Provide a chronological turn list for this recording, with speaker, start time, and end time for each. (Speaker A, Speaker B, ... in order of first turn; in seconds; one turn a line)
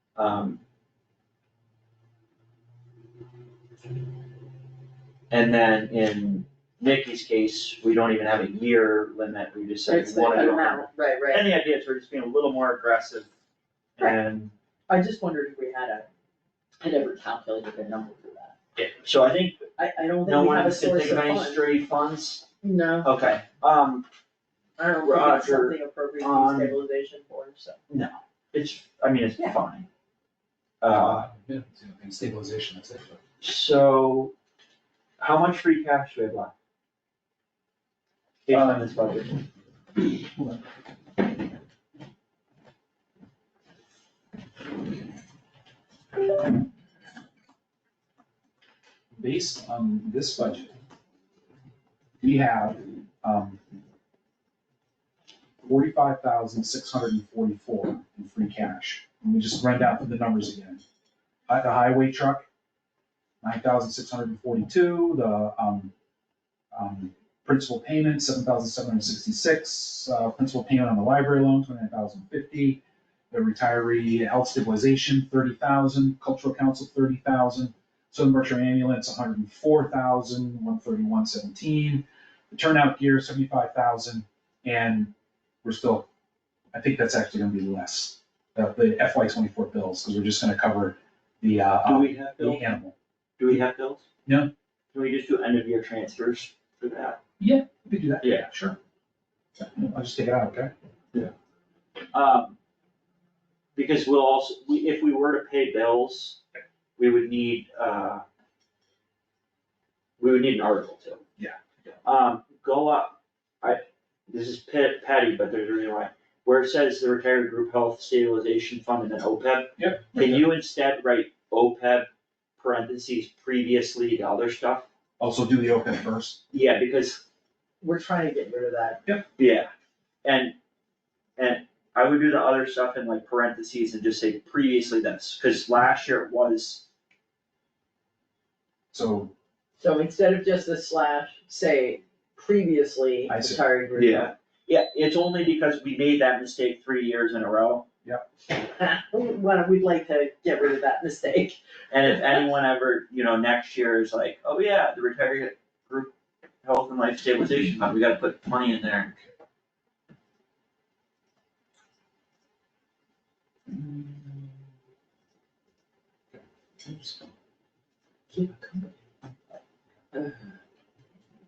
Speaker A: 0.1-0.6
Speaker A: 5.3-13.3
Speaker B: 9.9-11.5
Speaker A: 14.0-14.5
Speaker B: 14.9-16.1
Speaker B: 16.8-18.6
Speaker A: 18.8-19.6
Speaker B: 19.8-21.7
Speaker A: 20.2-22.5
Speaker B: 22.6-23.1
Speaker A: 23.0-24.1
Speaker B: 24.8-27.8
Speaker A: 25.0-26.8
Speaker A: 27.9-29.9
Speaker A: 30.8-31.3
Speaker C: 30.9-33.2
Speaker A: 33.4-34.3
Speaker A: 35.2-36.5
Speaker A: 38.5-39.4
Speaker C: 38.5-38.9
Speaker C: 40.3-40.6
Speaker C: 49.1-50.7
Speaker C: 52.2-53.6
Speaker C: 55.6-60.8
Speaker C: 61.5-62.4
Speaker C: 63.4-65.9
Speaker C: 66.7-85.1
Speaker C: 85.6-86.1
Speaker C: 86.7-92.9
Speaker A: 91.8-92.8
Speaker A: 93.4-94.0
Speaker A: 94.9-97.2
Speaker C: 97.4-98.8
Speaker A: 98.2-98.5
Speaker C: 99.6-100.7
Speaker A: 102.1-102.6
Speaker A: 103.7-106.4
Speaker A: 107.0-108.2
Speaker A: 110.2-111.2
Speaker C: 111.4-111.9
Speaker A: 112.0-124.9
Speaker C: 119.8-120.5
Speaker C: 125.2-126.4
Speaker A: 126.5-127.2
Speaker B: 127.8-129.0
Speaker A: 129.4-129.7
Speaker A: 130.2-130.5
Speaker A: 131.4-136.8
Speaker C: 138.9-139.3
Speaker B: 139.8-144.3
Speaker C: 143.3-143.6
Speaker A: 143.9-147.8
Speaker B: 148.5-151.6
Speaker A: 151.9-156.1
Speaker A: 156.6-159.1
Speaker B: 168.3-168.9
Speaker B: 170.1-170.4